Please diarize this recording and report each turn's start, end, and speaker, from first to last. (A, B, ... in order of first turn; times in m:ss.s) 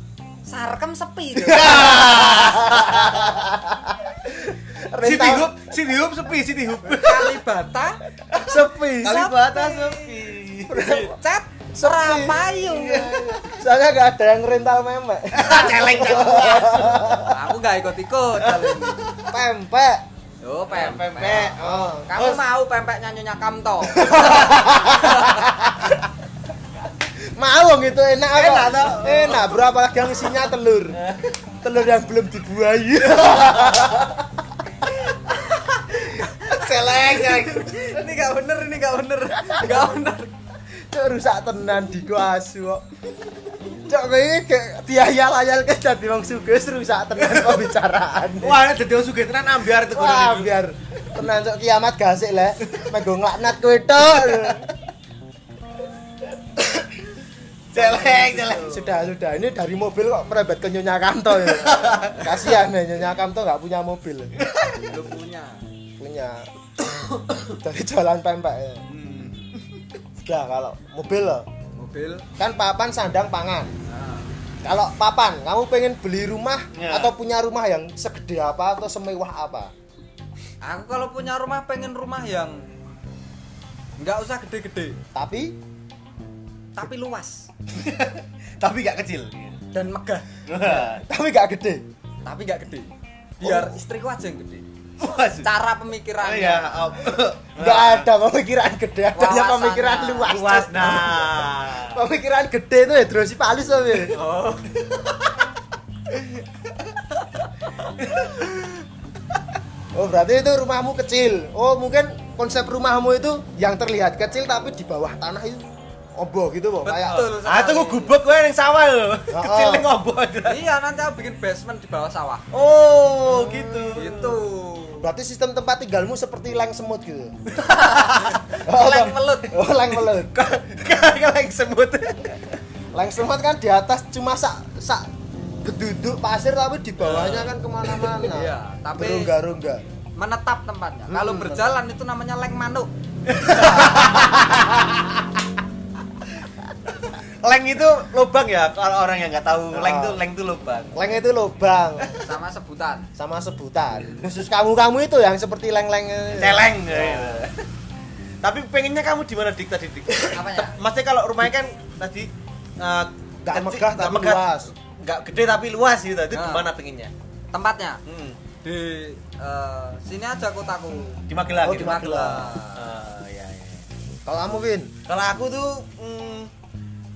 0:00.4-0:02.1 A
0:01.4-0:03.5 B
0:01.4-0:05.5 C
0:05.0-0:07.4 B
0:06.8-0:08.0 A
0:08.3-0:10.8 B
0:08.4-0:09.2 C
0:09.0-0:13.2 A
0:10.7-0:11.2 C
0:11.8-0:12.4 C
0:12.7-0:13.6 B
0:13.4-0:17.4 C
0:15.3-0:17.3 B
0:17.2-0:19.0 A
0:18.4-0:19.3 B
0:19.3-0:20.0 C
0:20.4-0:25.4 A
0:20.7-0:22.4 B
0:21.4-0:22.1 C
0:23.9-0:26.0 C
0:24.2-0:24.8 B
0:27.3-0:31.0 C
0:28.3-0:29.7 B
0:31.0-0:31.4 B
0:31.6-0:34.2 C
0:33.0-0:34.2 B
0:36.1-0:37.8 B
0:36.5-0:37.4 C
0:36.5-0:40.3 A
0:39.4-0:39.8 C
0:40.8-0:42.8 C
0:43.8-0:48.6 C
0:47.2-0:47.5 B
0:48.4-0:50.6 B
0:49.8-0:54.6 C
0:54.0-0:54.7 B
0:56.6-0:56.9 C
0:57.7-0:59.0 B
0:57.7-1:04.5 C
1:01.4-1:02.6 B
1:04.4-1:05.0 B
1:04.8-1:05.7 A
1:06.0-1:08.8 C
1:07.1-1:07.6 B
1:08.9-1:09.8 B
1:10.2-1:11.5 C
1:11.8-1:12.3 A
1:12.4-1:13.7 C
1:13.9-1:14.3 A
1:14.6-1:19.7 C
1:16.7-1:17.1 B
1:20.6-1:22.7 A
1:24.0-1:25.0 A
1:25.1-1:25.6 C
1:26.8-1:27.5 A
1:27.7-1:29.6 B
1:29.7-1:30.3 A
1:30.5-1:31.0 B
1:30.6-1:31.8 C
1:32.2-1:34.7 A
1:33.4-1:33.8 C
1:35.0-1:35.5 B
1:35.4-1:37.0 A
1:36.2-1:38.1 B
1:37.6-1:44.2 C
1:39.2-1:40.6 A
1:40.3-1:42.0 B
1:44.1-1:45.4 B
1:44.3-1:44.6 A
1:47.8-1:48.8 B
1:49.9-1:57.3 C
1:56.8-1:58.2 A
1:57.0-2:00.6 B
1:59.3-1:59.9 C
2:00.4-2:02.5 A
2:02.5-2:04.4 B
2:03.4-2:03.9 C
2:03.5-2:05.1 A
2:05.0-2:07.4 C
2:07.6-2:09.6 A
2:07.8-2:08.4 B
2:08.6-2:10.3 C
2:10.3-2:12.6 B
2:12.9-2:15.1 C
2:15.6-2:19.8 C
2:17.0-2:18.1 B
2:18.2-2:19.3 A
2:20.2-2:22.9 A
2:21.1-2:21.7 C
2:23.3-2:25.2 B
2:23.5-2:24.0 A
2:23.5-2:24.5 C
2:27.1-2:31.0 B
2:29.7-2:30.2 C
2:30.9-2:32.2 C
2:32.1-2:33.1 A
2:33.2-2:37.5 C
2:36.3-2:37.7 B
2:38.4-2:47.1 B
2:40.2-2:40.8 A
2:43.4-2:44.7 C
2:46.3-2:46.7 A
2:47.5-2:48.0 A
2:48.1-2:48.4 B
2:48.6-2:52.9 A
2:51.3-2:53.9 B
2:51.6-2:52.5 C
2:54.3-2:54.9 C
2:55.1-2:56.5 B